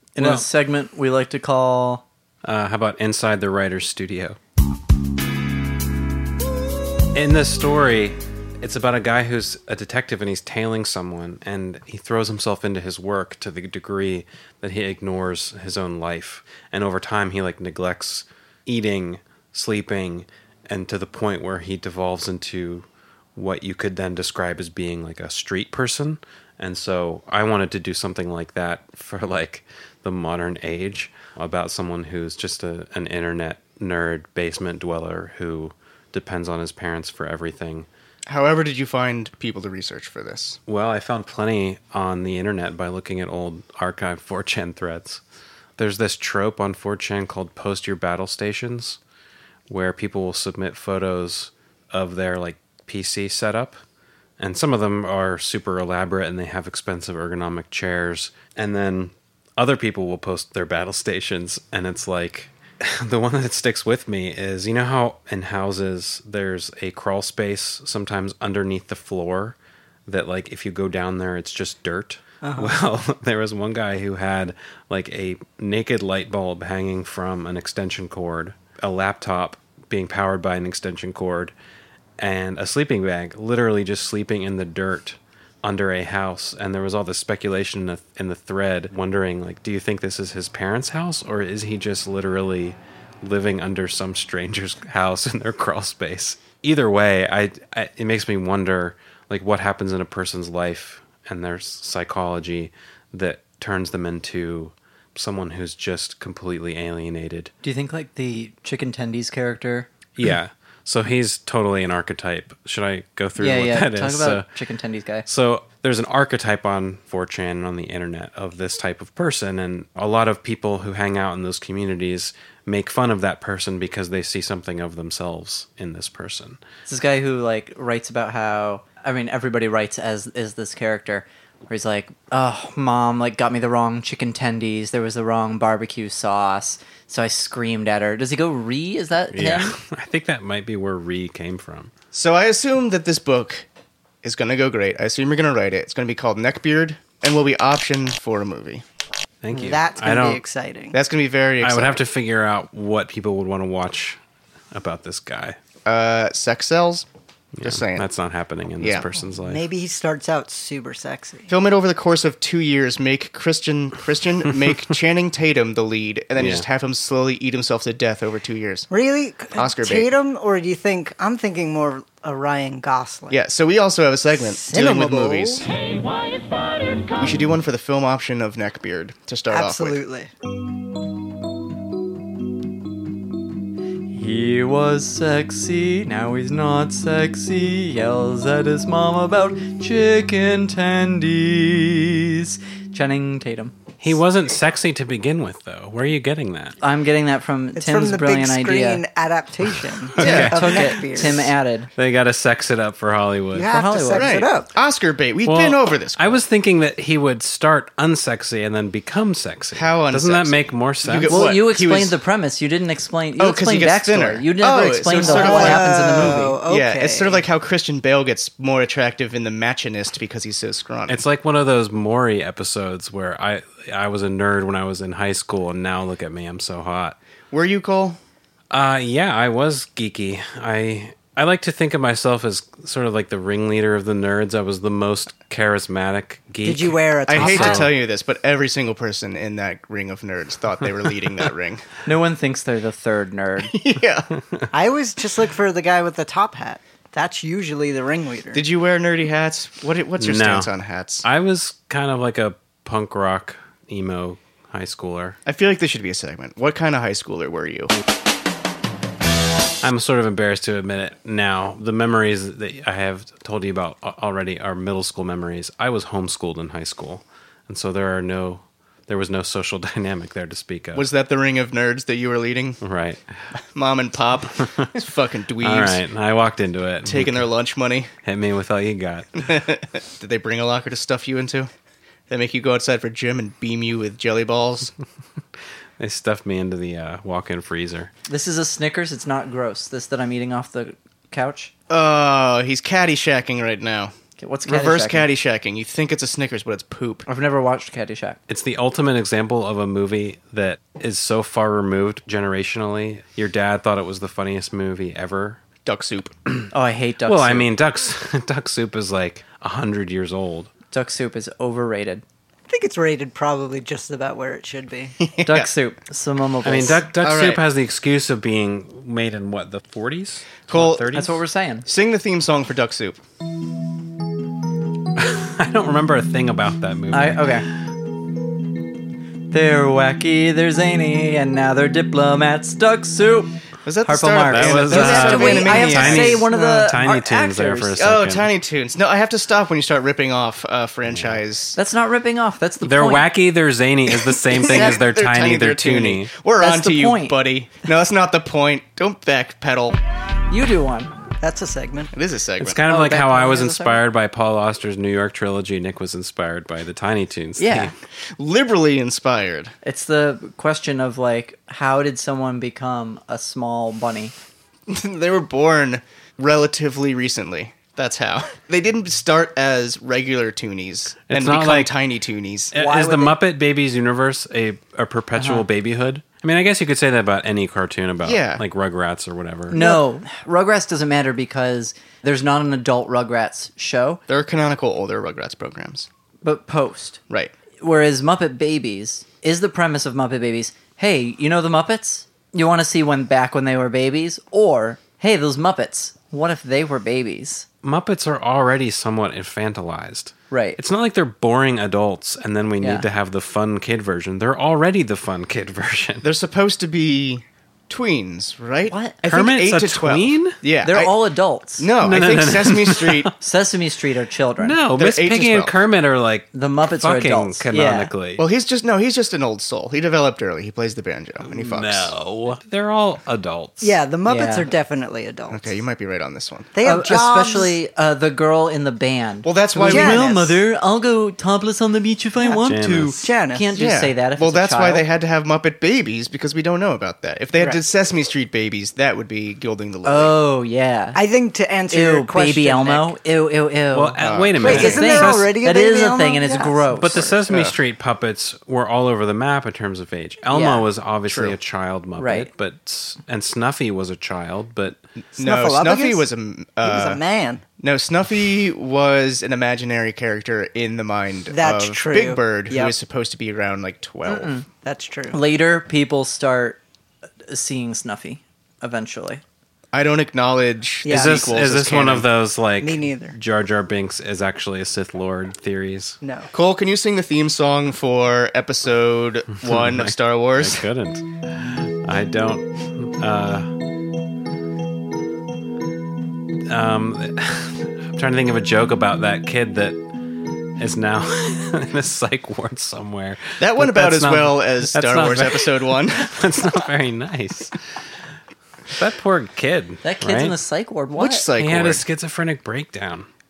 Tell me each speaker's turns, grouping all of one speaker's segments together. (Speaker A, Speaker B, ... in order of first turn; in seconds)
Speaker A: 0.1-2.0, 107.6-109.9, 113.4-115.2, 126.9-139.8, 184.1-193.7, 196.8-199.0, 200.2-201.9, 203.7-204.3, 211.3-216.6, 242.0-243.7, 288.3-291.7, 294.4-295.3, 297.3-298.4, 306.7-307.7, 310.9-312.2, 315.4-317.0, 321.1-321.9, 327.1-327.7, 329.5-338.0, 341.8-343.3, 346.6-347.4, 350.5-351.1, 352.9-354.0, 357.6-357.9, 359.8-364.3, 372.7-373.4, 375.4-375.6, 379.7-384.2, 386.4-387.2, 387.8-397.6, 400.5-400.8, 402.8-403.1, 408.9-409.1, 410.8-411.9, 413.4-414.8, 416.5-418.1, 424.3-424.7, 426.8-435.1, 440.0-441.2, 441.9-447.3, 452.2-452.5, 464.2-464.7, 465.3-466.8, 467.5-469.4, 500.0-501.4
Speaker B: 0.2-0.4, 2.4-4.4, 7.1-37.9, 40.7-45.2, 45.8-49.0, 49.7-53.8, 54.4-81.5, 82.2-107.5, 110.2-114.5, 115.2-126.6, 139.3-141.9, 149.4-150.4, 151.6-154.2, 154.7-155.6, 157.5-159.6, 166.4-166.7, 194.0-196.8, 200.1-201.4, 201.9-203.8, 205.4-211.4, 221.1-227.2, 228.7-237.9, 250.2-250.7, 251.2-255.4, 259.8-271.1, 272.8-273.4, 275.6-277.4, 278.2-279.5, 286.0-288.1, 298.5-305.6, 307.2-310.7, 316.6-321.4, 325.2-327.8, 334.5-338.5, 341.1-341.4, 342.8-346.3, 352.6-357.9, 371.3-371.9, 372.7-379.8, 397.8-406.3, 409.2-410.6, 412.0-413.3, 414.6-418.4, 421.4-424.0, 432.6-433.3, 443.9-445.5, 447.0-455.0, 471.1-476.2, 479.6-483.7, 486.7-490.0, 490.8-497.9, 498.9-500.6, 501.6-503.3
Speaker C: 38.3-40.6, 142.1-143.7, 144.2-148.8, 150.9-152.0, 155.8-157.1, 157.6-158.1, 158.8-159.1, 161.5-168.9, 169.5-170.1, 173.3-175.7, 177.1-180.0, 200.2-200.7, 204.1-206.4, 209.7-212.2, 213.4-221.2, 227.5-228.2, 237.3-241.8, 243.6-244.3, 248.5-251.2, 255.4-257.9, 270.9-272.8, 273.5-276.0, 277.0-278.1, 279.4-281.7, 282.3-284.9, 291.9-294.1, 294.6-297.2, 305.8-306.3, 315.2-315.7, 317.2-317.6, 320.7-321.0, 321.9-323.2, 333.8-336.9, 337.9-341.8, 344.1-350.0, 352.1-352.8, 358.4-359.7, 364.9-372.7, 378.2-378.6, 379.7-380.0, 384.3-386.1, 406.2-411.2, 411.8-413.3, 415.0-415.8, 418.4-422.1, 425.5-426.7, 429.4-430.3, 433.7-440.4, 444.2-445.0, 447.3-447.8, 451.3-451.6, 455.3-457.2, 457.8-464.5, 469.9-472.3, 476.5-480.8, 493.6-496.7, 501.1-502.0
Speaker D: 72.4-72.7, 149.5-151.0, 159.3-161.5, 168.9-173.4, 174.6-175.6, 179.5-180.3, 197.8-201.5, 203.5-204.7, 215.2-217.4, 236.6-237.9, 244.7-248.6, 312.7-315.2, 351.4-352.1, 423.8-425.8, 426.7-427.8, 429.9-430.6, 432.4-432.7, 433.2-433.7, 441.1-443.1, 444.6-447.2, 450.5-450.8, 455.4-456.2, 456.8-457.6, 461.5-462.9, 464.8-465.4, 471.0-471.5, 472.8-473.4, 476.2-476.5